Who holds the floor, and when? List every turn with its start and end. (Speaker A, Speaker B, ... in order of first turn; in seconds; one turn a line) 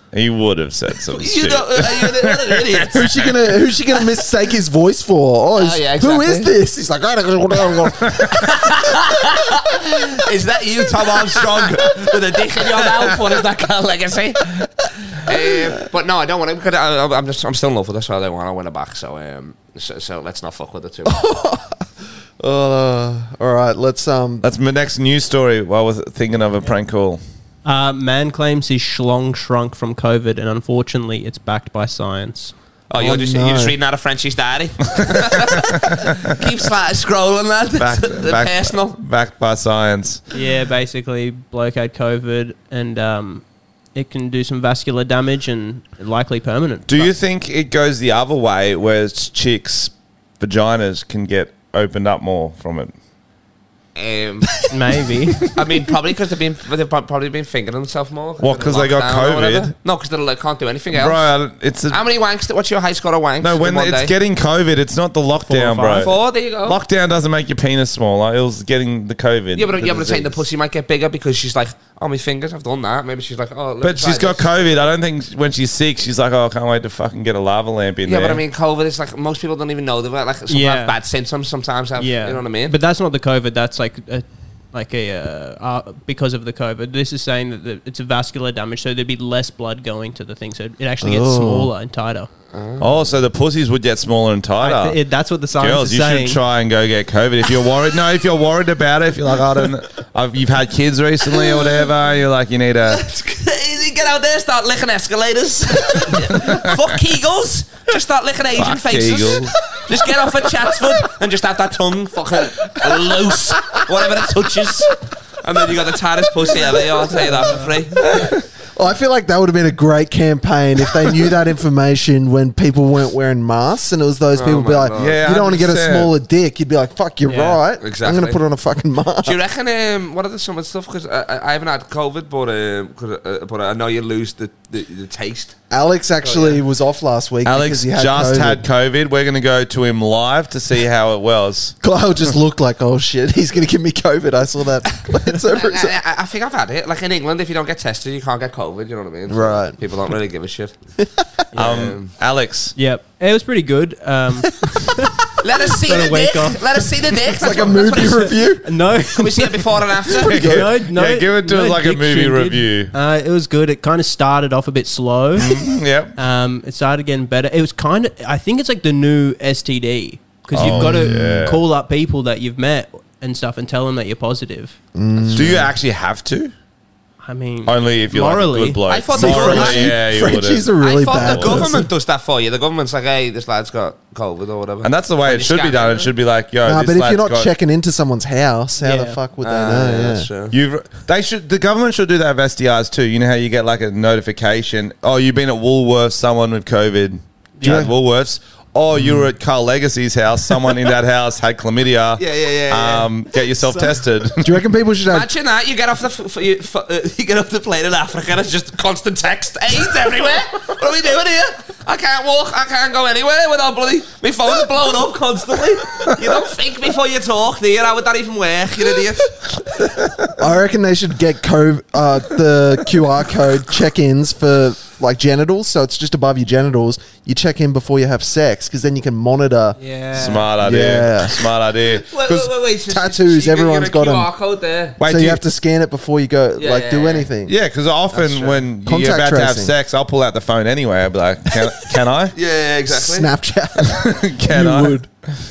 Speaker A: 0.1-3.1
Speaker B: 1.1-3.3
Speaker C: 2.9-8.4
Speaker B: 5.6-6.5
Speaker B: 8.4-14.6
Speaker B: 15.1-21.2
Speaker C: 21.0-21.9
Speaker C: 22.4-24.4
Speaker A: 24.4-27.2
Speaker D: 27.6-32.5
Speaker B: 32.9-39.0
Speaker C: 33.0-33.7
Speaker A: 37.8-40.2
Speaker D: 40.3-47.1
Speaker A: 46.9-52.9
Speaker B: 54.0-54.7
Speaker D: 54.7-55.5
Speaker B: 55.5-61.4
Speaker A: 58.4-59.7
Speaker A: 60.9-62.0
Speaker B: 61.9-64.1
Speaker A: 63.4-70.4
Speaker D: 65.5-66.1
Speaker B: 66.0-66.8
Speaker B: 69.5-74.8
Speaker A: 73.8-78.4
Speaker B: 78.0-82.8
Speaker D: 80.5-81.0
Speaker D: 82.0-92.3
Speaker C: 91.0-91.7
Speaker B: 92.5-93.2
Speaker A: 92.8-103.0
Speaker D: 94.6-96.4
Speaker B: 102.9-118.0
Speaker A: 106.3-106.7
Speaker A: 108.5-109.5
Speaker C: 118.3-129.4
Speaker B: 124.3-125.2
Speaker A: 125.0-126.1
Speaker D: 127.2-127.6
Speaker B: 127.8-128.4
Speaker B: 129.2-135.6
Speaker C: 135.7-138.6
Speaker B: 136.2-136.6
Speaker A: 137.4-141.8
Speaker C: 141.8-145.9
Speaker B: 145.3-150.8
Speaker C: 149.3-149.8
Speaker D: 151.5-151.8
Speaker A: 151.6-152.8
Speaker B: 151.6-152.1
Speaker D: 152.8-155.2
Speaker B: 155.4-158.5
Speaker D: 155.7-157.3
Speaker C: 157.3-158.8
Speaker D: 158.6-165.6
Speaker B: 159.1-160.4
Speaker A: 160.2-162.9
Speaker C: 160.3-160.7
Speaker A: 165.4-166.2
Speaker D: 166.2-174.8
Speaker A: 170.5-171.6
Speaker C: 170.6-171.5
Speaker C: 174.9-175.7
Speaker A: 175.3-176.5
Speaker D: 177.2-178.9
Speaker A: 177.6-181.8
Speaker B: 178.9-180.0
Speaker C: 179.2-181.9
Speaker B: 180.8-186.1
Speaker A: 184.8-187.5
Speaker C: 186.6-190.3
Speaker D: 188.8-189.2
Speaker B: 189.4-190.6
Speaker A: 190.5-204.6
Speaker D: 197.6-197.9
Speaker C: 197.6-197.9
Speaker C: 198.9-199.3
Speaker B: 202.2-203.1
Speaker C: 204.4-205.3
Speaker B: 205.1-219.5
Speaker C: 220.4-229.8
Speaker D: 229.8-230.5
Speaker A: 230.1-232.5
Speaker C: 230.5-231.5
Speaker B: 232.0-235.0
Speaker C: 232.9-234.3
Speaker A: 235.0-235.4
Speaker C: 235.0-237.6
Speaker B: 236.6-237.3
Speaker A: 237.4-242.3
Speaker B: 238.1-238.6
Speaker C: 238.8-239.7
Speaker B: 242.4-243.3
Speaker C: 242.9-245.1
Speaker A: 243.9-245.1